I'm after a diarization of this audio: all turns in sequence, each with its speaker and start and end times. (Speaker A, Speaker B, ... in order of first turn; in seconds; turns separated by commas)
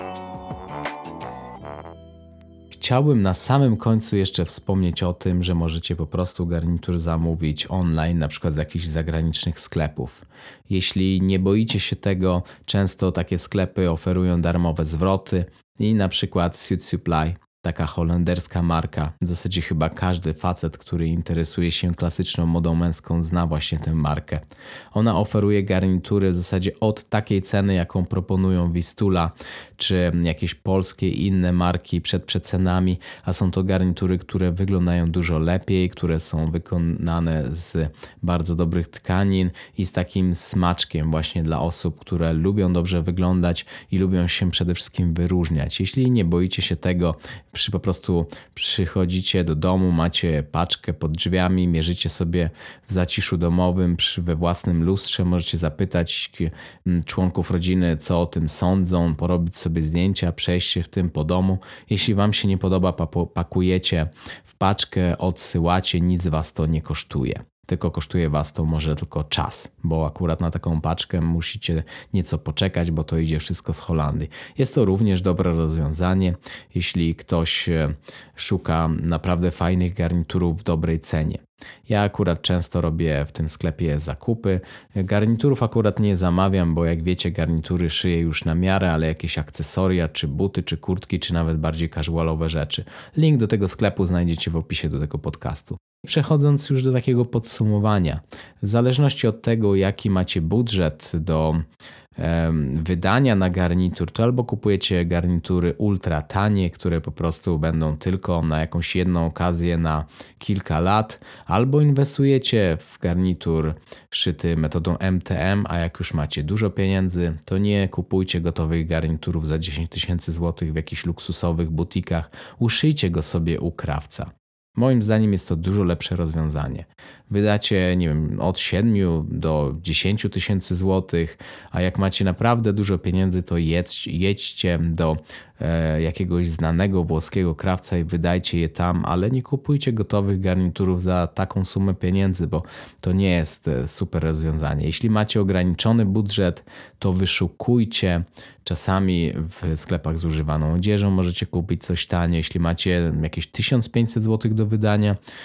Speaker A: 2.7-101.7, Speaker A: 102.2-155.2